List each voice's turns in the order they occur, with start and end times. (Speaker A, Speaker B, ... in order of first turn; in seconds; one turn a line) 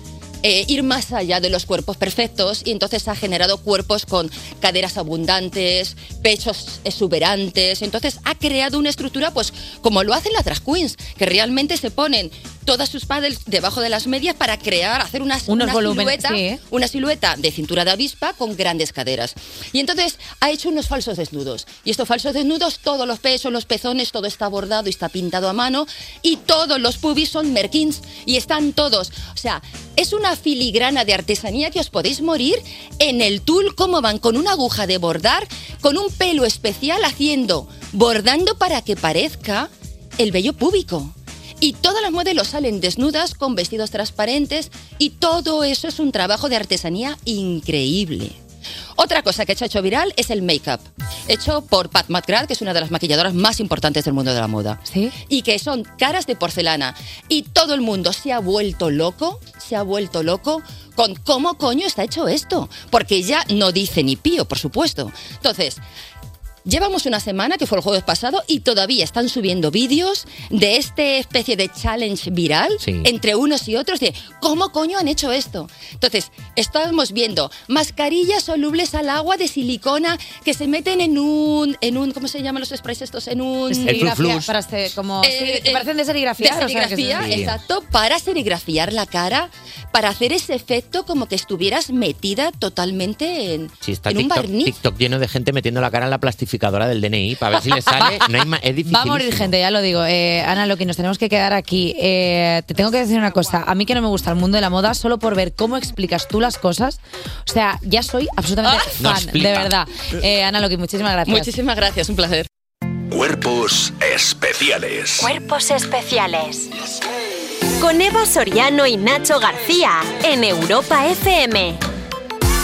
Speaker A: 0.4-48.4
Speaker B: 15.5-16.6
Speaker A: 49.0-65.8
Speaker B: 54.9-55.1
Speaker A: 66.6-84.2
Speaker C: 72.8-73.1
Speaker B: 83.7-87.3
Speaker C: 83.8-84.5
Speaker A: 85.2-85.9
Speaker A: 86.4-94.8
Speaker C: 87.2-87.6
Speaker C: 93.8-99.5
Speaker B: 98.9-111.5
Speaker C: 109.0-109.7
Speaker A: 111.2-112.5
Speaker D: 113.1-115.3
Speaker E: 115.2-116.7
Speaker E: 117.8-121.8